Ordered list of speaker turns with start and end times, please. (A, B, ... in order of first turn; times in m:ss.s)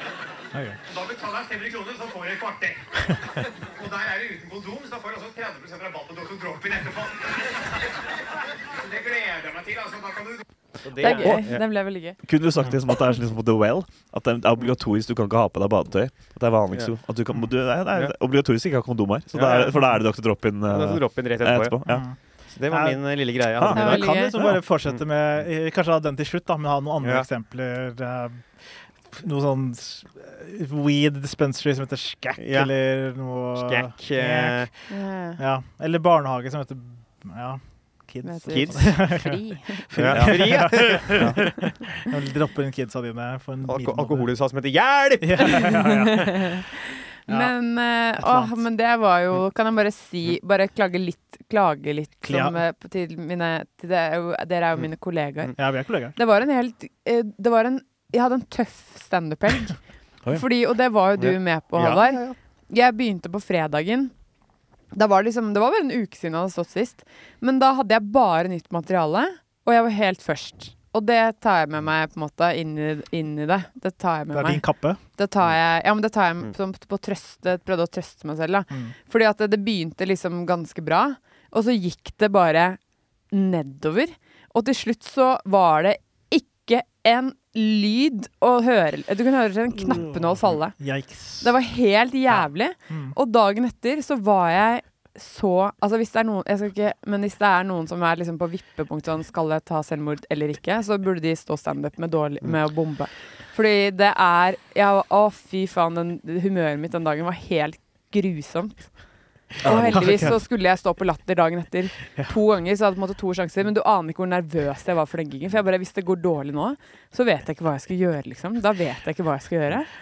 0:00.5-0:00.8 A
0:00.8-0:02.8 B
0:03.4-0:07.6 B
0:08.7-0:10.4 B
0:10.8-0:11.6 C
0:11.0-0:12.2 D
0:11.1-0:11.5 E
0:12.2-0:22.0 E
0:19.3-0:19.9 C
0:20.7-0:21.8 C
0:21.9-0:22.1 A
0:22.5-0:24.1 C
0:22.7-0:23.0 A
0:23.6-0:24.6 E
0:23.7-0:28.4 A
0:23.7-0:24.4 D
0:27.0-0:27.3 C
0:29.1-0:34.7 A
0:32.4-0:32.7 C
0:33.5-0:34.7 C
0:34.9-0:35.4 D
0:35.4-0:44.3 A
0:38.2-0:39.8 D
0:38.5-0:38.8 C
0:39.9-0:41.5 C
0:40.1-0:40.4 E
0:41.0-0:41.4 E
0:43.6-0:45.7 C
0:45.2-0:46.6 A
0:45.5-1:04.1 D
0:48.2-0:48.5 A
0:52.2-0:52.6 A
0:55.6-0:56.1 A
1:01.2-1:02.4 C
1:04.9-1:14.6 D
1:14.3-1:15.0 A
1:15.2-1:22.8 D
1:23.3-1:30.8 D
1:29.8-1:31.5 A
1:31.4-1:48.9 D
1:32.9-1:33.1 A
1:49.6-1:59.9 D
1:49.6-1:50.1 E
1:50.0-1:50.3 A